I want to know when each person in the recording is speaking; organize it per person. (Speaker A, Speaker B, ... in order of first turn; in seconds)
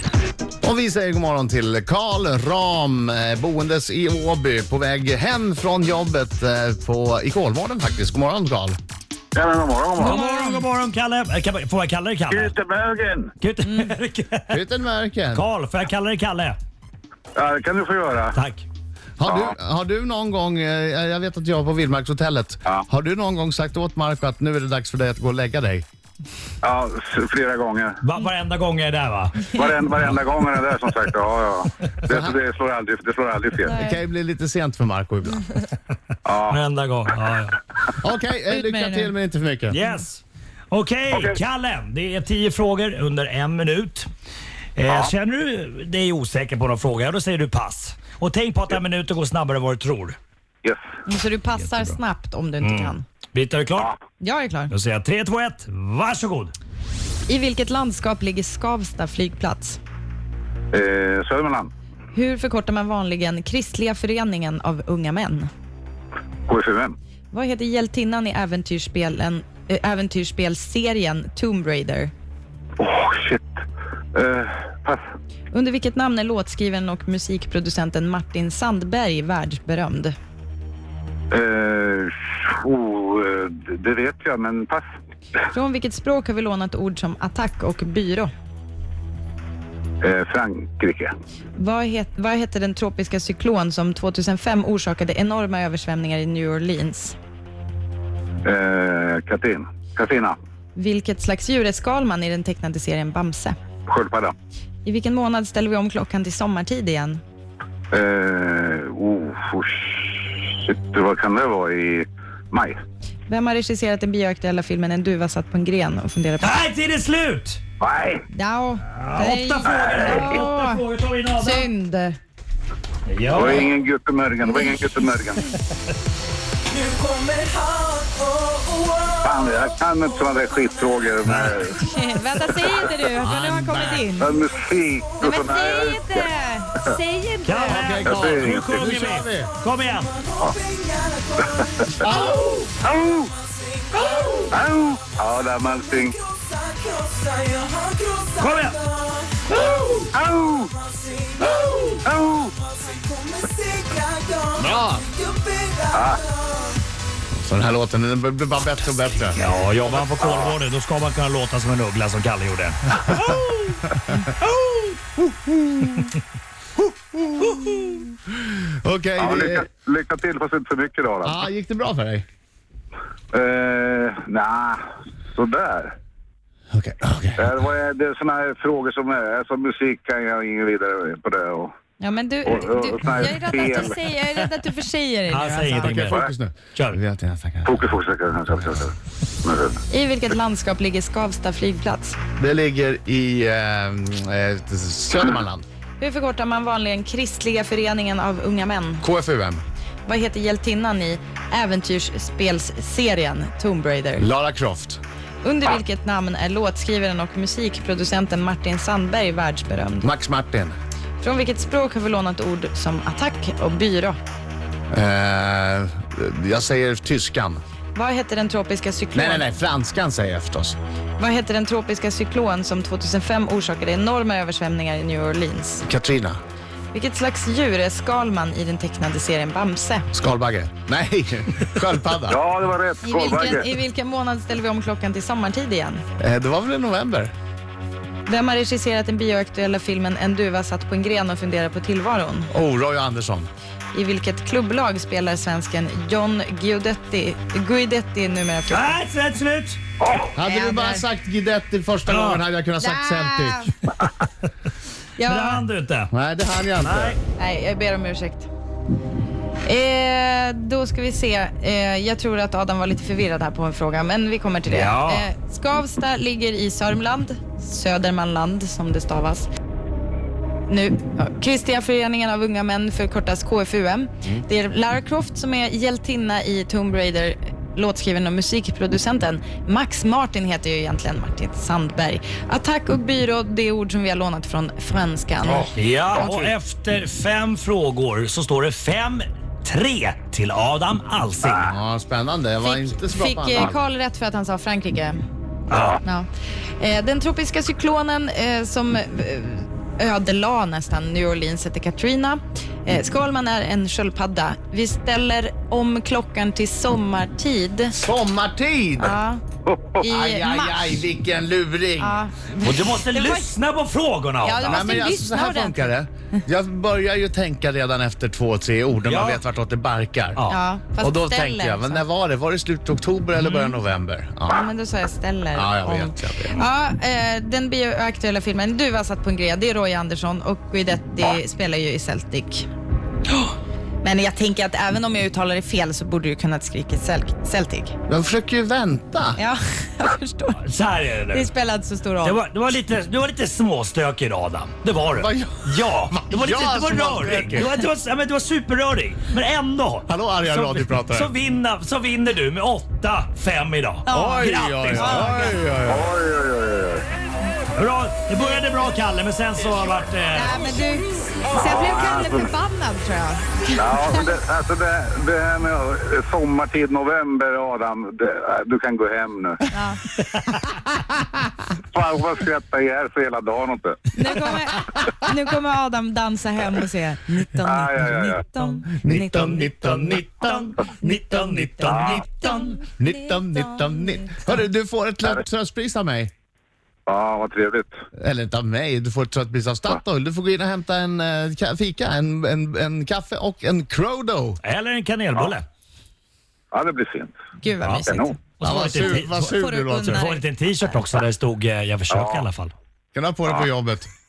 Speaker A: 0.6-8.8, 14.5-15.4, 19.2-25.8, 32.1-32.3, 33.7-35.4, 38.0-39.8, 133.2-134.1, 137.7-139.5, 142.0-142.6, 154.6-155.1, 157.3-159.5, 163.9-166.1, 166.8-168.0, 168.8-169.6, 171.2-172.2, 176.7-177.6, 185.8-187.8, 188.5-188.8, 192.4-195.6, 199.0-199.6, 204.2-205.0, 210.0-210.7, 214.9-217.6, 219.1-220.8, 225.8-226.4, 230.1-232.4, 236.2-237.3, 242.5-243.5, 250.3-253.7, 256.1-257.2, 285.5-286.5, 291.5-293.8, 308.0-309.2, 310.0-312.2, 314.6-324.6, 325.5-326.6, 338.1-339.4, 345.1-347.7, 350.1-351.3, 354.1-356.1, 379.0-386.3, 388.1-394.6, 398.6-400.2, 403.1-404.1
Speaker B: 9.3-10.2, 12.3-13.3, 17.3-18.4, 19.2-19.6, 26.6-28.0, 29.5-33.8, 36.2-36.6, 41.1-41.4, 44.9-45.1, 60.7-61.7, 66.5-66.9, 72.8-73.6, 74.1-75.0, 81.3-84.8, 90.0-91.1, 98.4-100.4, 103.9-104.3, 107.9-112.8, 117.8-118.2, 119.7-120.1, 123.3-125.5, 129.2-131.8, 134.2-136.3, 137.9-138.9, 142.8-143.3, 144.1-146.2, 149.5-150.7, 152.0-152.5, 155.9-156.2, 159.8-160.6, 169.2-171.4, 173.3-174.8, 175.3-175.9, 177.4-181.7, 182.4-184.0, 187.7-188.9, 189.4-189.8, 232.3-233.7, 250.0-250.3, 309.6-310.0, 355.9-357.0, 361.5-362.5, 363.7-369.6, 371.8-374.0, 377.6-378.4, 381.9-382.2, 387.1-387.9, 396.7-397.3, 398.0-398.3, 402.1-402.5
Speaker C: 10.0-12.5, 13.4-14.6, 15.3-16.6, 18.3-18.6, 28.0-30.2, 36.4-37.6, 39.7-44.1, 44.8-50.2, 51.5-52.0, 52.6-53.9, 54.7-56.5, 116.4-117.6, 118.9-121.7, 123.1-123.7, 131.2-131.7, 137.4-140.1, 148.4-148.8, 159.2-163.8, 185.3-186.2, 248.7-249.8, 252.1-252.4, 255.2-256.1, 256.8-257.2, 264.7-265.3, 285.7-291.7, 295.7-296.0, 312.6-315.0, 319.0-319.4, 340.6-341.5, 342.2-355.4, 357.7-360.6, 380.1-382.2, 394.6-395.6, 397.8-399.4, 400.0-402.7
Speaker D: 10.0-10.6, 13.6-13.9, 33.7-34.0, 38.5-39.1, 51.0-53.0, 54.2-54.7, 57.3-59.8, 62.1-65.5, 67.3-72.1, 75.5-80.1, 85.5-88.3, 91.5-97.2, 100.7-103.5, 104.8-107.2, 113.3-116.6, 118.3-120.8, 121.3-122.2, 124.5-124.8, 131.7-134.3, 135.2-137.9, 182.0-186.0, 189.9-192.2, 196.0-199.0, 200.0-204.3, 205.4-210.1, 211.2-214.2, 217.9-219.4, 221.2-225.8, 226.9-230.1, 233.0-236.0, 238.3-242.5, 243.9-249.0, 250.4-251.1, 252.8-253.7, 255.2-255.6, 257.4-258.5, 259.6-269.5, 270.7-285.7, 292.6-295.2, 296.0-308.0, 309.0-309.4, 310.0-310.8, 312.0-313.5, 314.4-315.9, 320.5-322.0, 324.5-332.7, 334.0-338.0, 339.4-340.6, 341.3-342.4, 354.1-355.6, 360.3-364.3, 369.7-370.0, 374.1-379.7, 382.3-384.5, 397.6-398.4, 399.2-400.4
Speaker E: 126.8-129.2, 140.3-141.3, 146.3-148.3, 149.0-149.4, 152.8-154.5, 155.2-155.9